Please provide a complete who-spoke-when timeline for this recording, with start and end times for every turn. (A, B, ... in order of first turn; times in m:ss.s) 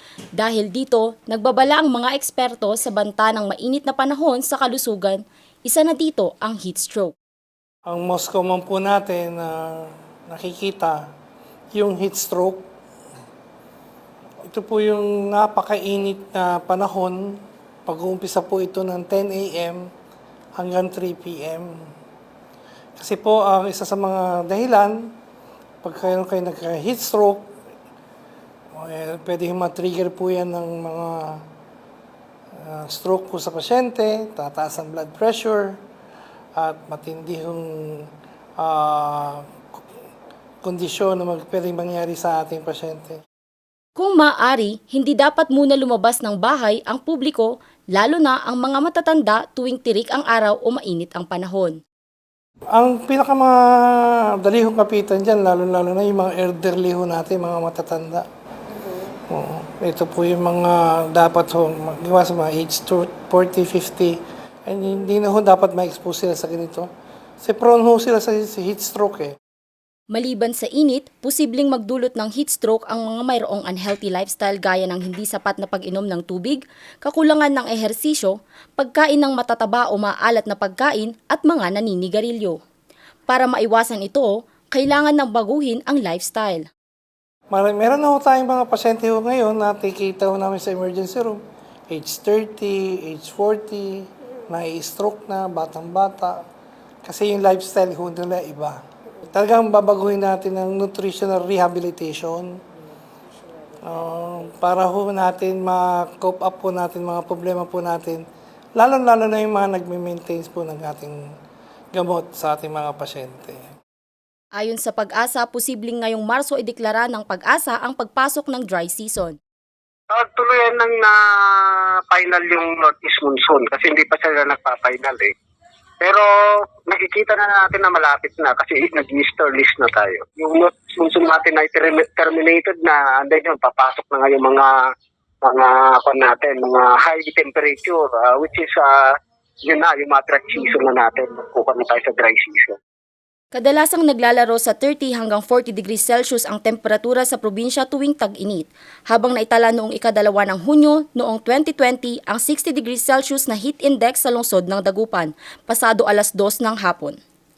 0:00.4-0:07.1 A
0:07.9-0:11.1 B
0:11.8-0:12.6 B
0:14.5-0:19.9 B
0:20.6-0:21.9 B
0:23.0-0:25.1 B
0:25.8-0:27.5 B
0:28.7-0:31.4 B
0:32.6-0:35.8 B
0:36.6-0:39.9 B
0:40.6-0:43.2 B
0:44.0-0:51.8 A
0:52.7-0:58.2 B
0:59.3-1:06.9 B
1:07.4-1:09.4 B
1:10.1-1:22.6 A
1:23.3-1:26.7 A
1:27.5-1:36.4 B
1:37.0-1:42.6 B
1:43.8-1:48.2 B
1:48.8-1:51.2 B
1:52.0-1:53.7 B
1:54.6-1:59.4 A
2:00.1-2:05.3 C
2:06.0-2:14.7 C
2:15.4-2:19.1 C
2:19.7-2:22.8 C
2:23.5-2:37.2 A